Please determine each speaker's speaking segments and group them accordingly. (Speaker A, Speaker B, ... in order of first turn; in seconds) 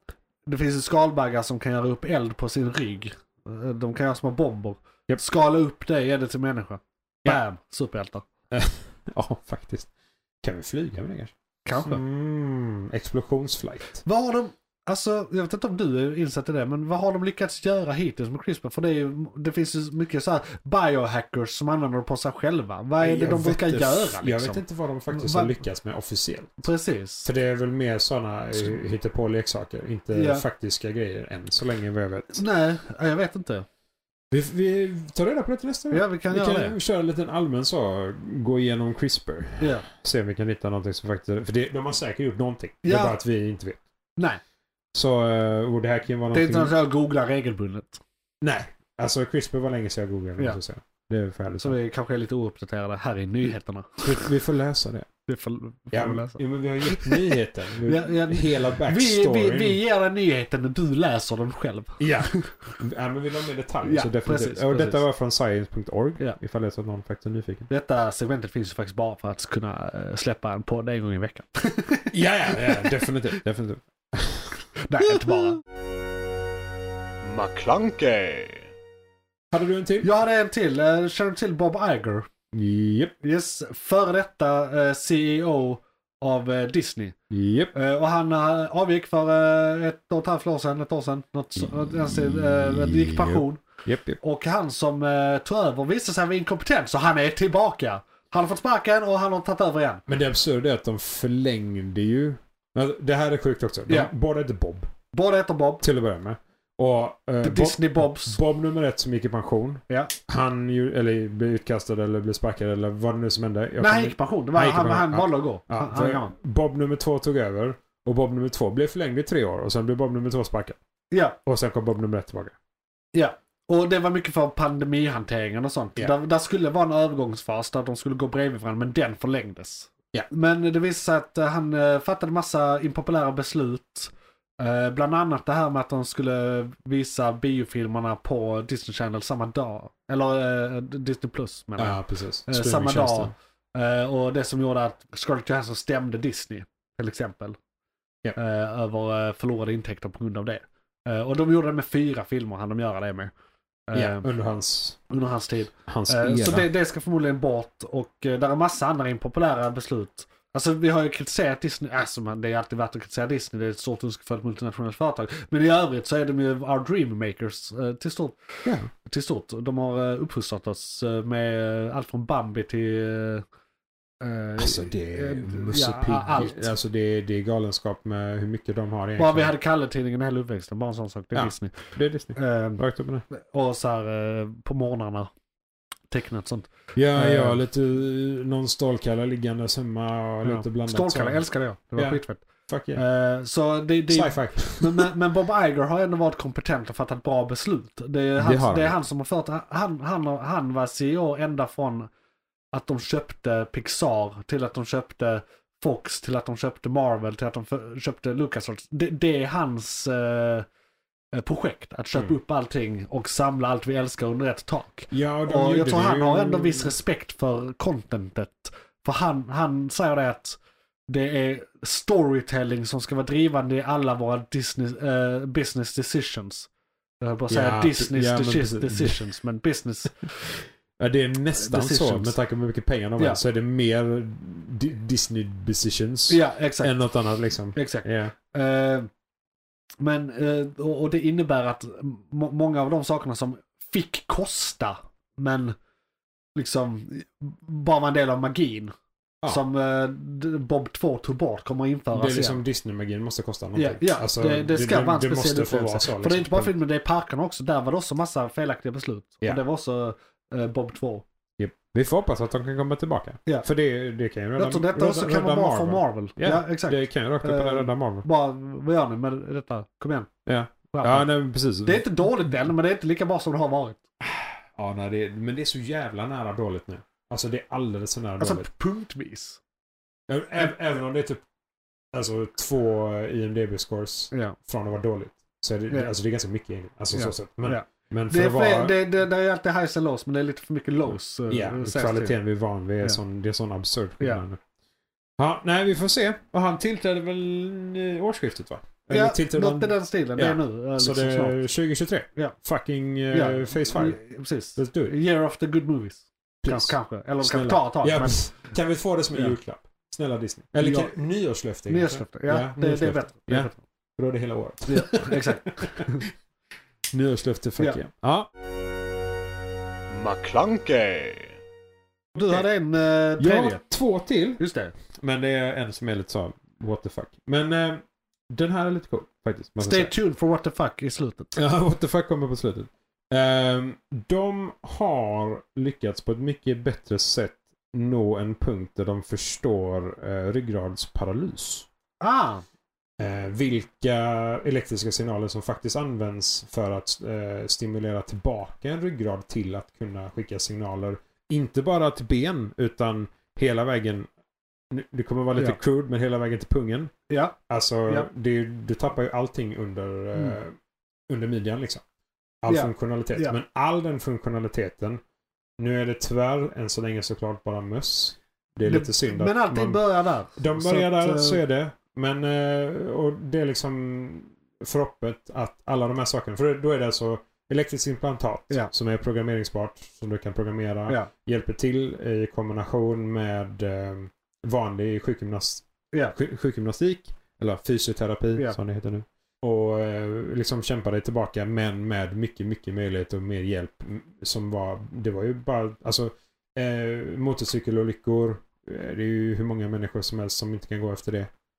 Speaker A: 0.5-8.2, 11.6-12.0, 14.0-25.6, 26.6-27.3, 30.1-30.4, 32.3-33.6, 35.9-36.8, 39.6-39.9, 42.8-43.1, 46.3-48.0, 51.6-54.3, 55.3-62.5, 63.8-65.0, 67.7-73.0, 74.8-75.6, 80.0-82.3, 83.2-87.2, 87.7-93.6, 94.2-100.0, 103.9-104.1, 105.1-105.8, 107.4-108.4, 109.9-110.1, 113.8-116.3, 121.1-121.4, 123.1-147.6, 148.3-153.3, 153.9-154.3, 155.1-173.4, 174.2-176.7, 179.2-181.7, 182.3-185.3, 186.1-187.6, 190.4-192.4, 192.9-202.1, 202.7-210.7, 211.3-220.6, 221.1-226.7, 227.2-230.3, 231.6-232.3, 236.3-237.1, 237.7-239.1, 240.0-245.7, 246.6-248.9, 249.5-252.6, 253.7-261.2, 264.6-270.3, 270.9-271.3, 271.8-274.0, 278.4-279.6, 284.3-284.6, 287.1-292.4, 299.1-301.6, 303.3-308.4, 310.8-311.1, 311.9-313.8, 314.9-316.2, 322.3-323.8, 324.6-324.9, 329.8-331.5, 342.2-342.6, 357.3-358.3, 362.7-363.6, 368.8-371.6
Speaker B: 8.5-9.9, 10.4-14.0, 23.0-26.7, 27.2-32.4, 34.3-43.8, 44.9-46.7, 48.4-51.8, 54.0-55.1, 55.9-59.8, 62.0-67.7, 72.1-74.5, 79.5-80.1, 82.5-83.1, 87.3-87.7, 91.6-94.2, 100.1-104.9, 105.8-120.8, 121.5-122.5, 141.8-143.3, 153.9-155.0, 155.9-156.7, 174.6-179.5, 181.3-183.2, 186.9-191.4, 191.9-193.0, 194.1-195.1, 198.4-199.0, 215.1-216.9, 227.5-229.2, 231.0-238.3, 252.1-256.7, 261.6-268.2, 270.4-272.0, 274.2-278.7, 280.3-281.4, 282.1-289.0, 291.5-294.6, 295.4-304.2, 304.8-305.1, 306.6-316.0, 317.1-318.5, 322.4-322.6, 323.4-324.6, 325.2-330.1, 331.5-341.9, 343.2-354.3, 354.9-357.1, 357.7-360.7, 361.3-362.0, 362.6-365.2, 365.8-370.0, 370.5-401.5
Speaker C: 77.2-78.7, 320.1-321.6